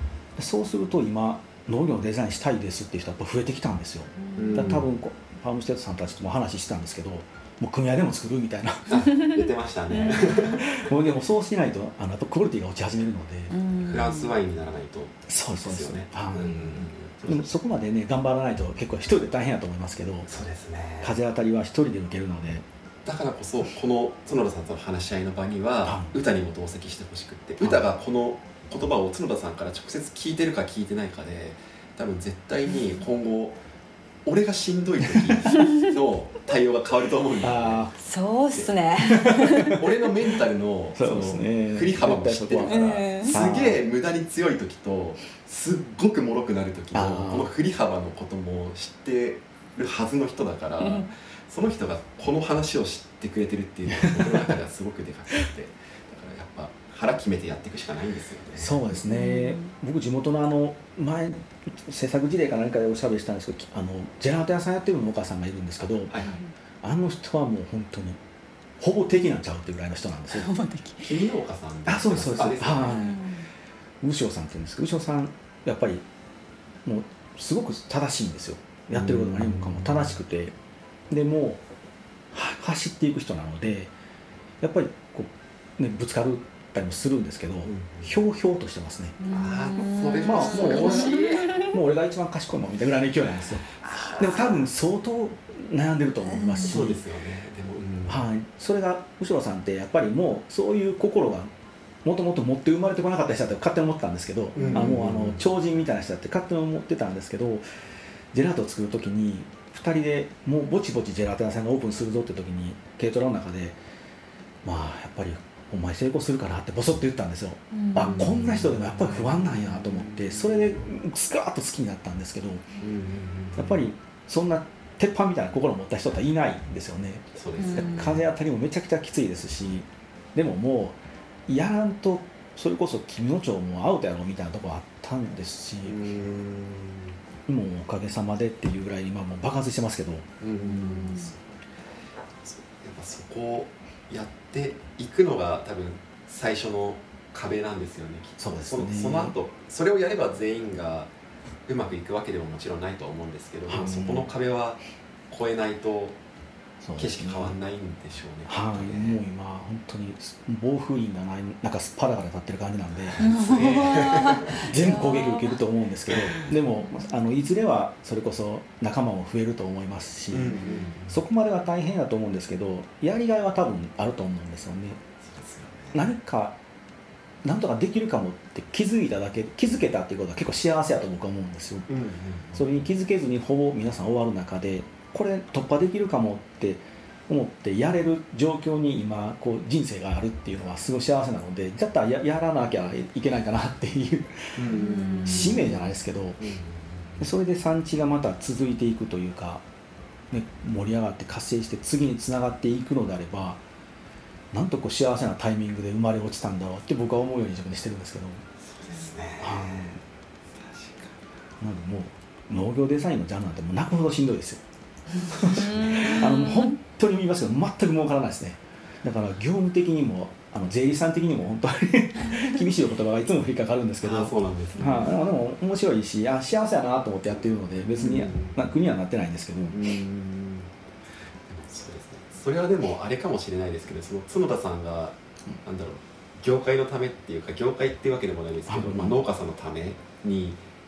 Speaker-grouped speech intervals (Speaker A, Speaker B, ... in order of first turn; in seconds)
Speaker A: 0.4-9.1, 10.3-13.5, 15.3-20.3, 21.0-22.6, 25.8-26.1, 27.6-27.9, 37.4-37.9, 39.0-39.8, 41.0-43.8, 46.9-47.5, 53.9-54.5, 58.6-66.1, 66.8-68.2, 68.8-70.5, 71.8-73.2, 74.0-76.0, 76.8-80.5, 81.1-81.6, 82.3-83.9, 84.6-89.2, 90.2-93.7, 94.2-97.0, 98.1-101.5, 102.0-107.6, 108.3-113.8, 114.6-122.6, 123.5-136.0, 137.5-140.3, 148.4-149.3, 153.7-154.3, 156.8-157.5, 158.5-175.0, 175.9-176.6, 177.4-181.9, 182.5-196.4, 197.2-199.6, 200.3-203.6, 204.5-208.4, 209.4-210.0, 211.6-214.6, 215.3-229.8, 238.7-239.2
Speaker B: 4.2-4.8, 9.9-10.6, 13.5-14.3, 35.5-35.9, 38.0-39.8, 42.6-43.4, 50.8-51.1, 59.0-59.7, 66.2-66.5, 70.3-71.2, 72.8-73.5, 89.2-91.7, 93.8-94.5, 96.4-96.7, 117.7-118.3, 127.6-128.2, 140.6-141.3, 163.2-165.6, 166.8-167.1, 194.7-195.8, 215.4-216.8, 224.8-225.2
Speaker C: 4.3-4.9, 8.9-10.8, 13.8-17.5, 20.2-21.1, 23.0-33.6, 34.2-38.0, 39.7-58.8, 66.1-66.3, 71.0-73.0, 78.9-80.2, 87.6-88.2, 89.3-91.6, 96.6-98.2, 104.5-105.4, 118.0-120.8, 122.8-123.8, 127.3-128.2, 135.8-137.2, 140.4-141.5, 142.4-151.1, 151.7-156.2, 157.0-159.2, 163.2-164.7, 166.1-166.4, 170.3-171.2, 175.2-176.1, 181.9-182.7, 194.6-195.7, 196.4-197.3, 208.6-210.0, 210.5-211.2, 215.3-216.3, 224.0-225.0, 227.9-228.6, 229.7-230.7, 231.5-240.6